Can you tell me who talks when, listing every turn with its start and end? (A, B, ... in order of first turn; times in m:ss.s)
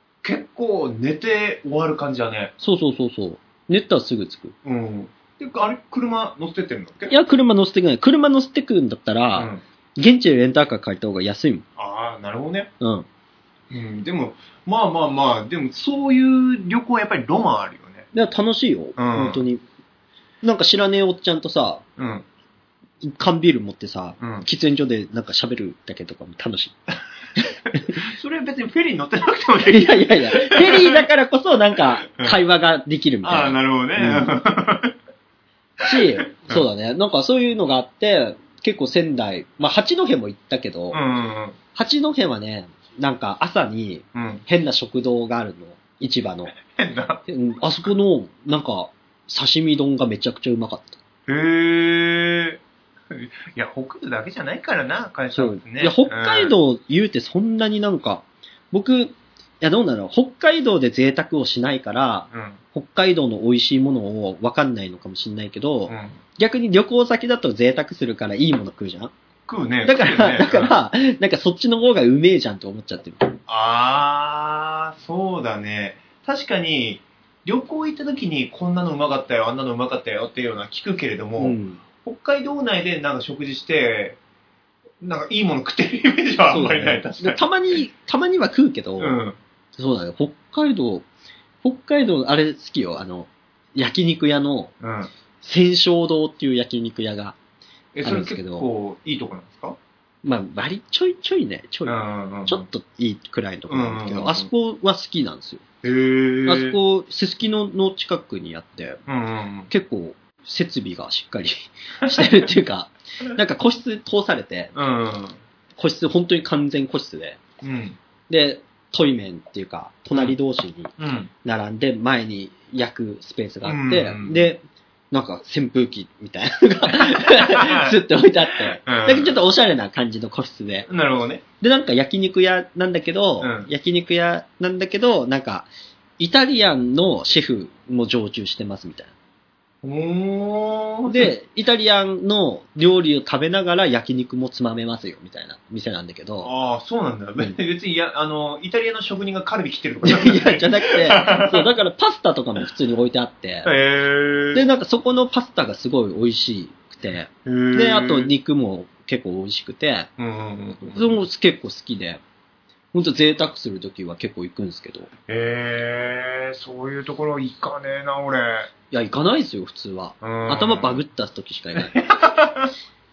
0:00.2-0:02.5 A
0:02.6-0:04.5 B
0:04.6-0:07.1 A
0:07.1-0:11.6 B
0:09.3-0:09.6 A
0:11.8-0:12.7 A
0:12.8-0:13.1 B
0:13.7-0:18.1 A
0:18.1-0:19.6 B
0:19.0-0:19.4 A
0:20.4-0:21.8 B
0:22.0-0:22.2 A
0:23.0-0:26.8 B
0:24.2-0:24.4 A
0:27.4-0:28.0 B
0:27.8-0:31.0 A
0:29.6-0:34.4 B
0:31.8-0:32.4 A
0:33.2-0:34.9 A
0:35.8-0:41.0 B
0:35.9-0:36.6 A
0:40.9-0:41.6 A
0:41.7-0:46.6 B
0:44.1-0:44.4 A
0:46.6-0:47.2 A
0:47.3-0:51.0 B
0:51.3-0:56.5 A
0:55.3-1:09.1 B
1:02.3-1:02.6 A
1:05.9-1:06.2 A
1:09.5-1:10.7 A
1:09.8-1:13.4 B
1:13.5-1:24.2 A
1:21.4-1:21.8 B
1:25.0-1:27.4 A
1:26.5-1:29.2 B
1:29.0-1:29.4 A
1:29.8-1:31.0 B
1:31.6-1:34.7 B
1:34.8-1:35.1 A
1:35.4-1:37.4 B
1:37.9-1:39.8 A
1:38.0-1:38.7 B
1:40.2-1:45.6 B
1:41.8-1:42.6 A
1:43.7-1:44.5 A
1:45.8-1:46.8 A
1:46.4-1:49.0 B
1:49.1-1:49.7 A
1:49.7-1:54.7 B
1:52.0-1:52.5 A
1:54.7-1:55.4 A
1:55.8-1:57.4 B
1:57.6-1:58.0 A
1:58.3-2:00.9 B
2:01.0-2:01.3 A
2:01.4-2:10.9 B
2:03.6-2:04.5 A
2:07.0-2:08.0 A
2:08.6-2:09.4 A
2:10.9-2:11.4 A
2:11.6-2:15.7 B
2:13.4-2:13.7 A
2:16.2-2:19.1 B
2:19.8-2:21.3 A
2:21.1-2:26.5 B
2:26.4-2:31.7 A
2:30.0-2:33.7 B
2:33.6-2:34.6 A
2:34.5-2:40.1 B
2:37.4-2:38.3 A
2:40.2-2:41.2 A
2:40.9-2:42.2 B
2:42.9-2:45.1 B
2:45.3-2:48.7 A
2:48.9-2:51.9 B
2:50.2-2:51.0 A
2:51.8-2:52.7 A